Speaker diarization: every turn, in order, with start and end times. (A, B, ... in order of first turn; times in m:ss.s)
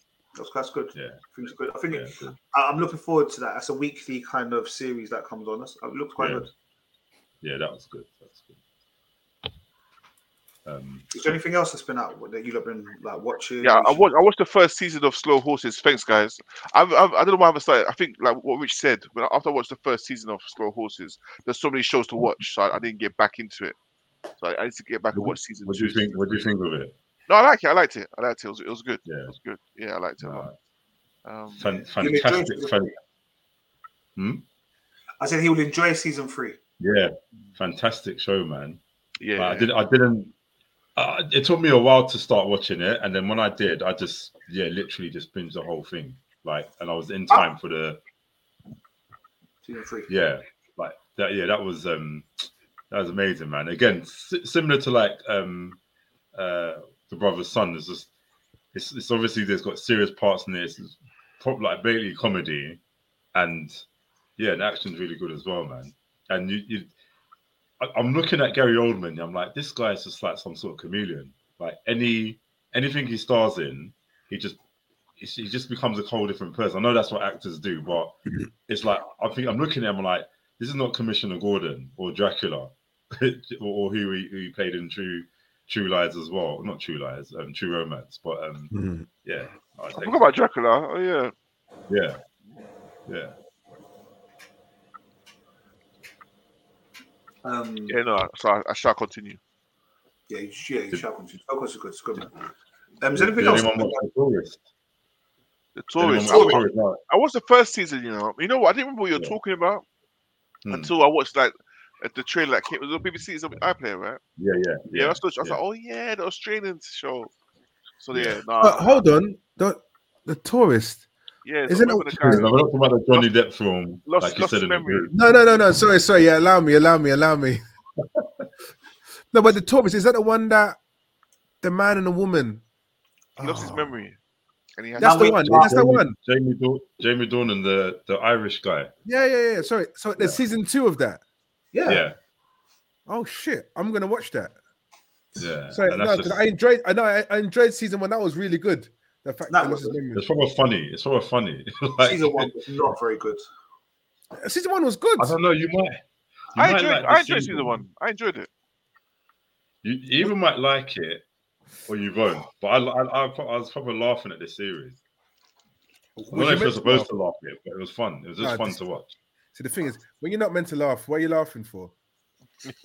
0:00.4-0:06.5 A
0:00.9-0:01.2 B
0:01.9-0:02.4 B
0:06.2-0:06.5 B
0:07.4-0:08.6 B
0:10.6-0:11.1 B
0:11.1-0:14.1 A
0:13.6-0:23.8 C
0:24.4-0:26.2 C
0:25.1-0:26.9 B
0:27.3-0:30.5 C
0:29.0-0:29.3 B
0:30.2-0:30.5 B
0:31.2-0:31.7 C
0:31.6-0:32.9 B
0:32.0-0:32.8 A
0:34.2-0:34.4 B
0:35.2-0:36.6 A
0:36.8-0:38.8 B
0:39.2-0:39.7 C
0:39.4-0:40.3 B
0:41.0-0:48.0 B
0:49.6-0:50.1 A
0:50.1-0:55.8 B
0:56.3-0:58.1 B
0:58.7-1:02.8 B
1:03.3-1:03.8 B
1:04.4-1:06.9 B
1:07.8-1:14.6 B
1:15.2-1:18.2 B
1:18.7-1:28.7 B
1:28.7-1:29.1 D
1:29.2-1:30.2 B
1:29.9-1:31.3 C
1:31.9-1:32.2 B
1:33.1-1:33.3 B
1:37.4-1:38.0 A
1:37.9-1:39.4 C
1:40.3-1:42.3 A
1:43.0-1:44.0 A
1:43.1-1:44.6 B
1:45.8-1:49.8 C
1:46.0-1:47.0 B
1:46.3-1:46.6 A
1:50.6-1:50.9 B
1:50.7-1:54.2 C
1:54.4-1:55.6 B
1:54.9-1:57.3 C
1:58.0-1:59.0 C
1:58.1-1:58.4 B
1:58.6-2:01.1 D
2:01.4-2:02.5 C
2:01.7-2:02.4 D
2:02.2-2:05.1 B
2:04.0-2:05.1 C
2:05.1-2:07.6 D
2:08.0-2:08.2 B
2:09.3-2:10.8 D
2:11.6-2:12.6 D
2:13.4-2:13.9 D
2:13.4-2:14.2 C
2:14.8-2:15.5 C
2:15.0-2:15.8 A
2:15.0-2:16.1 D
2:15.4-2:18.9 B
2:19.0-2:21.2 D
2:21.7-2:22.0 A
2:21.8-2:22.2 B
2:23.1-2:24.6 D
2:25.4-2:26.4 B
2:25.7-2:30.2 D
2:29.5-2:30.0 A
2:30.1-2:32.5 B
2:32.0-2:33.4 A
2:34.4-2:35.3 D
2:35.2-2:36.0 B
2:36.5-2:37.8 B
2:36.6-2:38.5 C
2:39.8-2:41.2 B
2:41.9-2:45.0 B
2:46.2-2:47.1 D
2:46.3-2:49.1 B
2:48.4-2:48.8 D
2:49.5-2:51.9 D